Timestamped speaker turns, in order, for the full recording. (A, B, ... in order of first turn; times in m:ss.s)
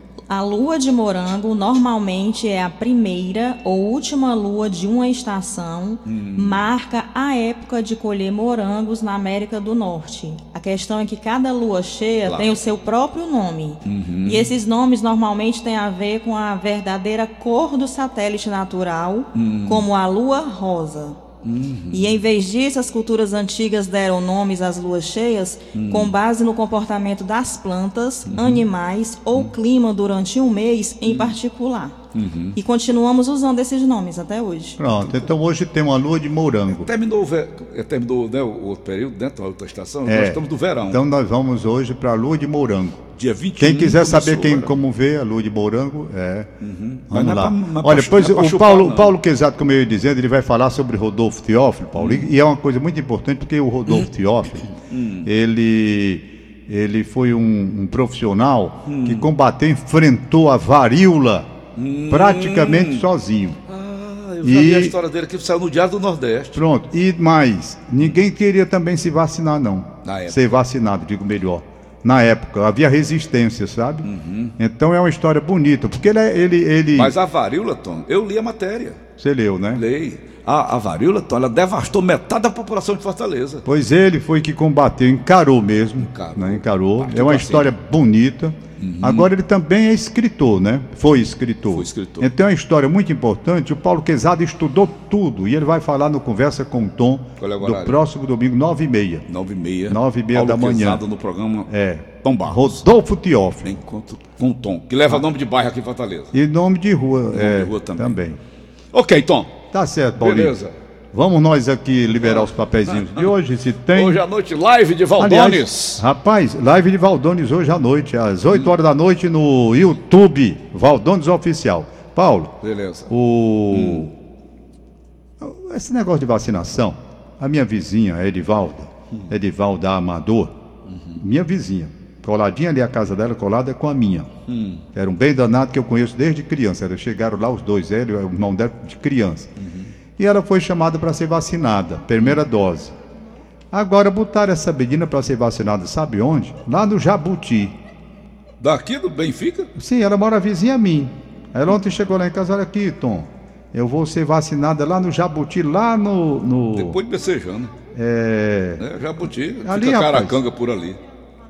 0:00.3-0:21.2 A
0:06.1-0:06.7 B
0:12.2-0:12.6 B
0:13.8-0:14.5 B
0:19.4-0:19.9 B
0:21.4-0:22.2 B
0:21.9-0:32.0 A
0:25.7-0:26.1 B
0:28.2-0:28.6 B
0:31.1-0:31.4 B
0:32.1-0:32.6 B
0:32.5-0:34.8 A
0:34.8-0:36.9 C
0:35.0-0:35.3 B
0:36.7-0:41.0 B
0:40.1-0:43.0 C
0:43.2-0:44.7 B
0:43.6-0:46.5 C
0:46.6-0:49.1 B
0:47.1-0:54.7 C
0:52.0-0:52.3 B
0:54.8-0:55.3 B
0:55.2-1:01.5 C
0:58.9-0:59.3 B
1:01.8-1:03.1 B
1:02.1-1:03.6 C
1:03.7-1:06.6 B
1:04.4-1:05.0 C
1:06.5-1:17.2 C
1:10.0-1:10.5 B
1:14.0-1:14.5 B
1:16.9-1:19.0 B
1:19.2-1:19.8 C
1:19.7-1:23.6 B
1:23.6-1:39.2 C
1:26.0-1:27.7 B
1:28.8-1:29.3 B
1:31.7-1:32.3 B
1:37.4-1:38.0 B
1:39.3-1:42.8 B
1:39.9-1:41.0 C
1:41.7-1:43.8 C
1:43.6-1:46.3 B
1:46.3-1:48.4 C
1:47.3-1:48.2 B
1:48.9-1:49.6 B
1:49.7-1:50.6 C
1:50.2-1:50.7 B
1:51.1-1:54.2 C
1:52.2-1:53.4 B
1:53.9-1:56.0 B
1:55.2-2:02.6 C
2:02.6-2:03.1 B
2:03.1-2:04.1 C
2:03.7-2:04.1 B
2:05.4-2:10.5 C
2:10.9-2:11.2 B
2:11.2-2:14.3 C
2:14.5-2:14.8 B
2:14.9-2:19.5 C
2:19.6-2:19.9 B
2:20.2-2:22.9 C
2:23.7-2:27.7 C
2:28.6-2:29.7 B
2:29.8-2:37.0 C
2:36.7-2:37.7 B
2:37.9-2:38.9 C
2:38.8-2:41.0 B
2:39.6-2:40.4 C